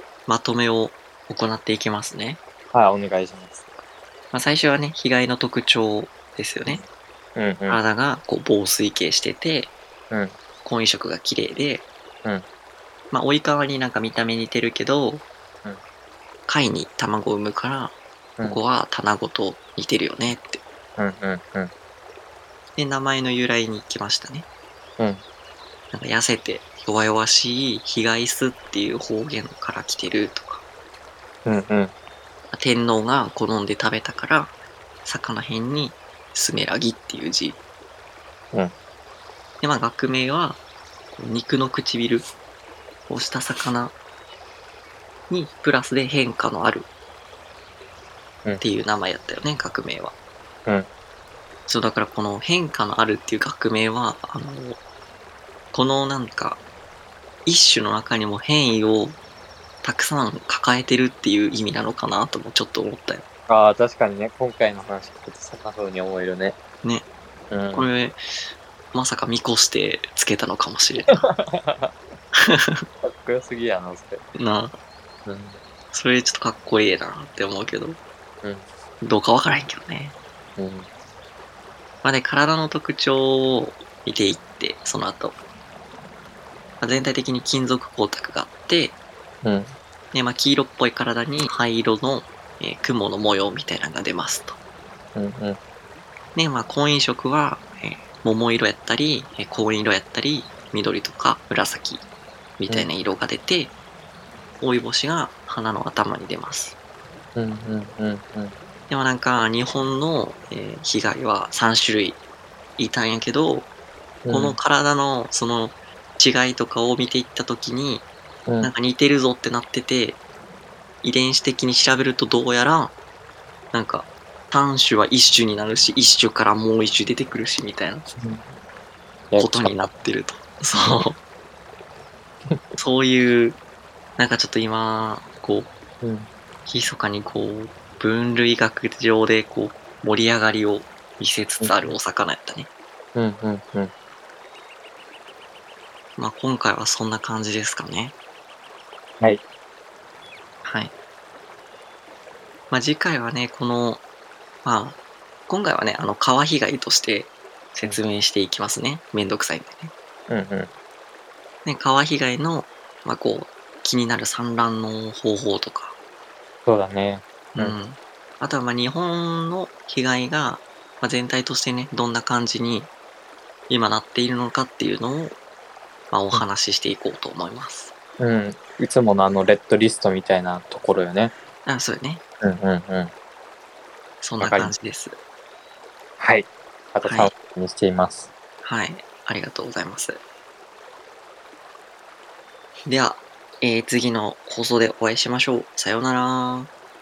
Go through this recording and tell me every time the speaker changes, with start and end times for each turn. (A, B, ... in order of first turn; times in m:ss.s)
0:00.3-0:02.4 A
0:02.7-0:03.7 B
0:04.3-0:06.8 A
0:07.4-0:07.8 B
0:07.7-0:09.7 A
0:10.1-0:10.4 B
0:10.6-0:11.9 A
0:13.1-0:15.2 A
0:16.5-0:20.6 A
0:21.0-0:21.7 B
0:22.8-0:24.4 A
0:25.9-0:30.6 A
0:31.4-0:31.9 B
0:32.5-0:37.6 A
0:39.6-0:40.6 A
0:41.1-0:42.3 A
0:43.1-0:44.0 A
0:45.3-0:46.9 A
0:48.6-0:50.1 A
0:51.7-0:54.8 A
0:55.7-0:56.6 A
0:57.4-0:59.2 A
0:59.8-1:03.2 A
1:03.5-1:06.6 B
1:07.5-1:07.9 B
1:07.7-1:08.2 A
1:08.9-1:11.2 A
1:11.1-1:11.9 B
1:12.3-1:12.8 A
1:13.0-1:14.2 B
1:14.4-1:14.7 A
1:15.2-1:15.6 B
1:15.9-1:18.0 A
1:19.0-1:20.1 A
1:20.6-1:20.9 B
1:22.0-1:25.4 A
1:26.8-1:29.0 A
1:29.4-1:29.7 B
1:30.1-1:34.6 A
1:35.1-1:35.6 B
1:36.3-1:42.0 A
1:42.6-1:43.7 A
1:44.6-1:46.8 A
1:47.4-1:48.5 B
1:48.9-1:52.2 A
1:52.8-1:53.7 A
1:54.2-1:54.6 B
1:54.3-1:58.1 A
1:58.5-1:58.7 B
1:58.6-2:00.2 A
2:01.0-2:02.9 A
2:03.7-2:08.0 A
2:08.2-2:08.5 B
2:09.3-2:09.7 B
2:09.4-2:11.2 A
2:12.8-2:13.6 A
2:14.2-2:15.7 A
2:16.0-2:16.3 B
2:16.6-2:22.7 A
2:21.6-2:21.9 B
2:23.1-2:23.9 B
2:26.2-2:28.1 A
2:30.6-2:30.9 A
2:32.7-2:34.0 A
2:34.6-2:39.9 A
2:40.3-2:40.7 B
2:41.6-2:46.0 A
2:46.6-2:47.8 B
2:47.6-2:52.9 A
2:53.7-2:55.4 A
2:56.1-2:57.9 A
2:58.2-3:01.3 B
3:01.6-3:02.2 A
3:02.4-3:03.1 B
3:04.2-3:05.2 A
3:04.4-3:04.7 B
3:06.2-3:08.3 B
3:07.0-3:07.3 A
3:08.6-3:10.2 A
3:12.9-3:16.7 A